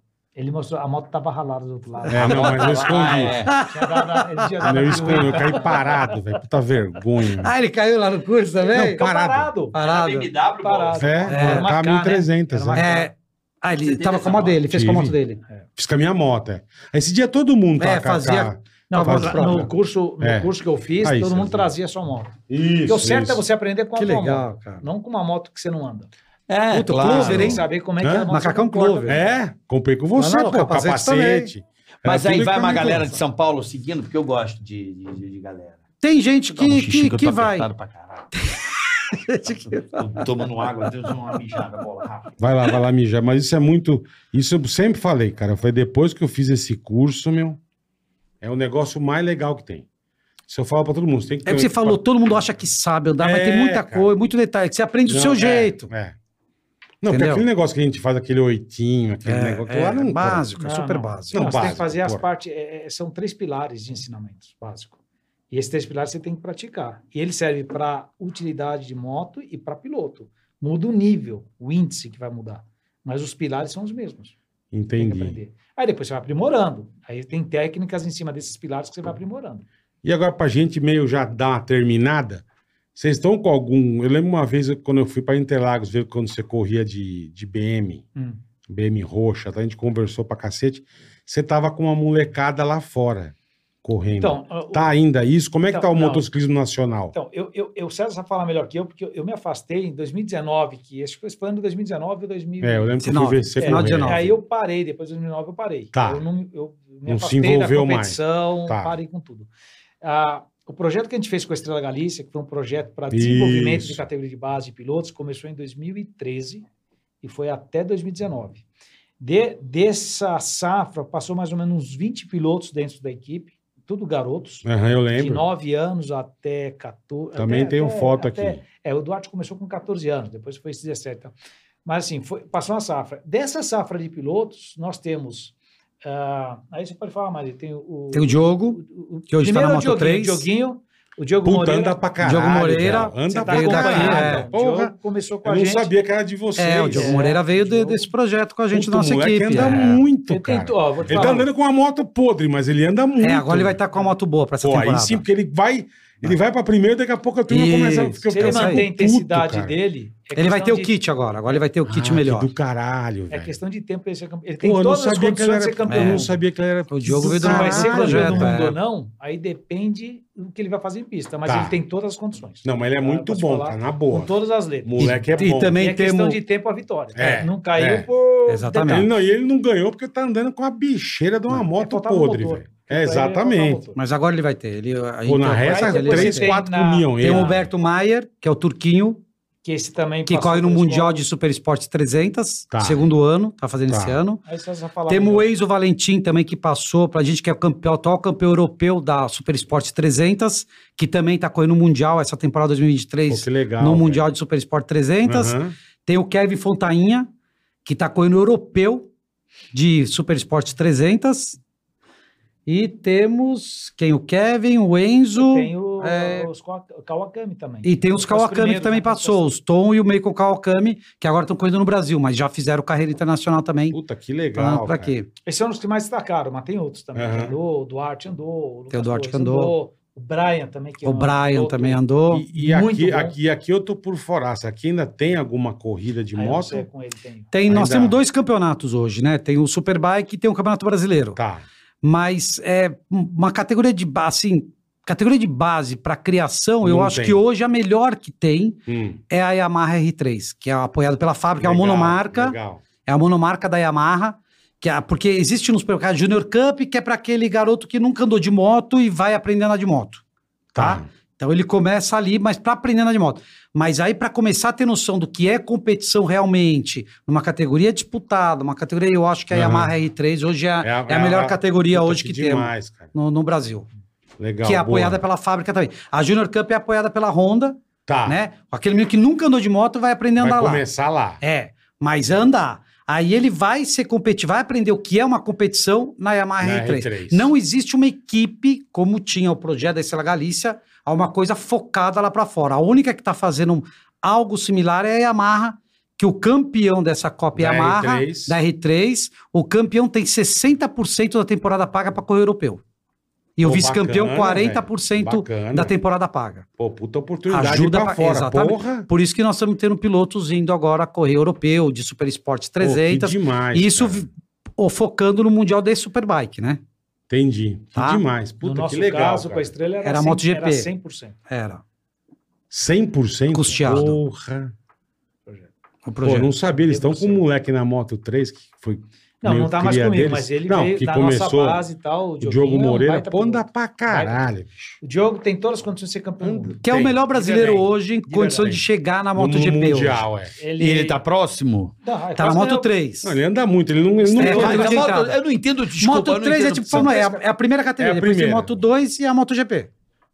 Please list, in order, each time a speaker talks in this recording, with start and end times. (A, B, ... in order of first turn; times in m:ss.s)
0:00.3-0:02.9 A
0:02.0-0:02.3 B
0:02.1-0:03.5 C
0:02.3-0:03.5 D
0:03.4-0:05.5 B
0:03.7-0:06.2 A
0:04.6-0:07.5 C
0:07.4-0:09.0 B
0:08.6-0:09.8 A
0:08.7-0:09.5 C
0:09.7-0:10.3 B
0:09.8-0:11.4 D
0:10.6-0:13.1 A
0:11.0-0:12.9 C
0:11.3-0:11.7 B
0:12.8-0:15.4 B
0:13.8-0:14.6 D
0:14.6-0:15.2 C
0:15.8-0:21.7 C
0:17.8-0:19.6 B
0:18.9-0:22.3 A
0:22.5-0:23.4 C
0:22.8-0:26.1 A
0:24.0-0:24.8 B
0:26.5-0:27.6 D
0:26.7-0:27.6 B
0:26.9-0:29.3 A
0:28.0-0:28.3 C
0:28.2-0:29.2 B
0:29.0-0:33.2 C
0:30.2-0:31.5 B
0:32.0-0:35.8 D
0:36.0-0:37.7 B
0:36.5-0:38.5 D
0:39.1-0:40.2 B
0:39.7-0:42.3 D
0:42.4-0:47.6 C
0:48.4-0:49.8 C
0:50.5-0:52.0 C
0:51.4-0:55.9 B
0:53.2-0:54.2 C
0:55.0-0:56.2 C
0:57.0-1:00.4 C
0:57.1-0:57.4 B
0:59.2-1:01.4 B
1:00.6-1:04.9 A
1:01.3-1:02.2 C
1:05.5-1:14.3 A
1:14.7-1:15.4 C
1:15.0-1:19.6 A
1:20.0-1:22.4 C
1:23.0-1:28.0 C
1:28.7-1:37.1 C
1:34.2-1:34.9 A
1:35.7-1:36.2 A
1:37.1-1:43.0 A
1:42.6-1:44.3 C
1:43.0-1:44.3 B
1:43.6-1:49.5 A
1:45.9-1:46.2 C
1:47.0-1:48.9 C
1:50.0-1:56.6 A
1:53.1-1:54.0 C
1:57.2-1:58.6 A
1:59.2-2:11.3 A
2:04.6-2:05.4 C
2:07.4-2:08.6 C
2:11.8-2:22.0 A
2:18.1-2:20.5 B
2:21.4-2:27.2 C
2:22.2-2:24.5 B
2:23.2-2:25.9 A
2:26.6-2:30.0 B
2:26.9-2:28.1 A
2:28.7-2:33.8 C
2:29.6-2:31.5 A
2:33.2-2:35.2 B
2:34.6-2:39.7 C
2:37.5-2:38.8 B
2:38.2-2:41.6 A
2:40.4-2:42.5 B
2:41.8-2:43.6 C
2:43.3-2:46.3 A
2:44.6-2:48.7 C
2:45.9-2:46.2 B
2:46.9-2:48.8 B
2:47.2-2:59.1 A
2:51.4-2:51.8 C
2:52.6-2:54.3 C
2:54.8-2:55.8 C
2:55.0-2:56.4 B
2:57.1-2:58.1 C
2:58.5-2:59.1 B
2:58.9-3:03.8 C
3:01.5-3:04.0 A
3:03.9-3:06.6 B
3:05.2-3:07.7 C
3:05.6-3:07.6 A
3:07.2-3:09.2 B
3:09.6-3:11.2 A
3:10.3-3:14.4 B
3:12.7-3:13.1 C
3:13.9-3:14.2 C
3:14.4-3:15.5 A
3:15.1-3:27.3 B
3:23.3-3:24.2 C
3:25.2-3:25.7 C
3:27.8-3:29.1 B
3:29.7-3:31.6 B
3:32.6-3:36.5 B
3:35.4-3:39.5 A
3:37.8-3:44.0 B
3:43.9-3:45.1 C
3:44.6-3:45.3 B
3:45.4-3:53.4 A
3:47.1-3:47.5 C
3:48.9-3:49.7 B
3:51.0-3:52.4 B
3:52.3-3:56.8 C
3:56.3-3:57.5 A
3:57.5-4:01.4 B
3:57.7-3:58.2 C
4:01.4-4:01.6 C
4:02.0-4:20.2 B
4:06.8-4:07.4 C
4:08.9-4:09.2 C
4:11.6-4:12.8 C
4:20.7-4:21.0 C
4:20.8-4:33.9 B
4:29.5-4:29.9 C
4:30.8-4:33.1 C
4:34.4-4:35.2 C
4:34.6-4:40.8 B
4:38.1-4:38.4 C
4:40.4-4:41.4 C
4:41.4-5:02.8 B
4:46.6-4:47.5 C
4:57.5-4:58.6 C
5:03.6-5:06.6 B
5:03.6-5:05.9 C
5:06.8-5:09.1 C
5:07.5-5:16.8 B
5:12.8-5:14.3 C
5:17.3-5:19.7 C
5:17.9-5:18.2 B
5:18.6-5:21.4 A
5:20.0-5:20.9 B
5:21.5-5:21.8 B
5:22.7-5:24.7 C
5:23.5-5:24.2 B
5:26.0-5:26.5 B
5:26.2-5:31.8 C
5:26.6-5:27.4 A
5:29.4-5:34.4 A
5:32.4-5:35.0 C
5:35.0-5:38.7 A
5:36.4-5:37.2 C
5:36.8-5:40.2 B
5:38.6-5:38.8 C
5:39.3-5:40.6 C
5:40.6-5:41.2 A
5:40.8-5:41.9 D
5:42.0-5:42.9 A
5:42.4-5:43.3 B
5:43.2-5:45.0 C
5:44.4-5:45.4 B
5:44.4-5:47.3 D
5:44.4-5:45.0 A
5:46.0-5:49.9 B
5:48.0-5:48.8 C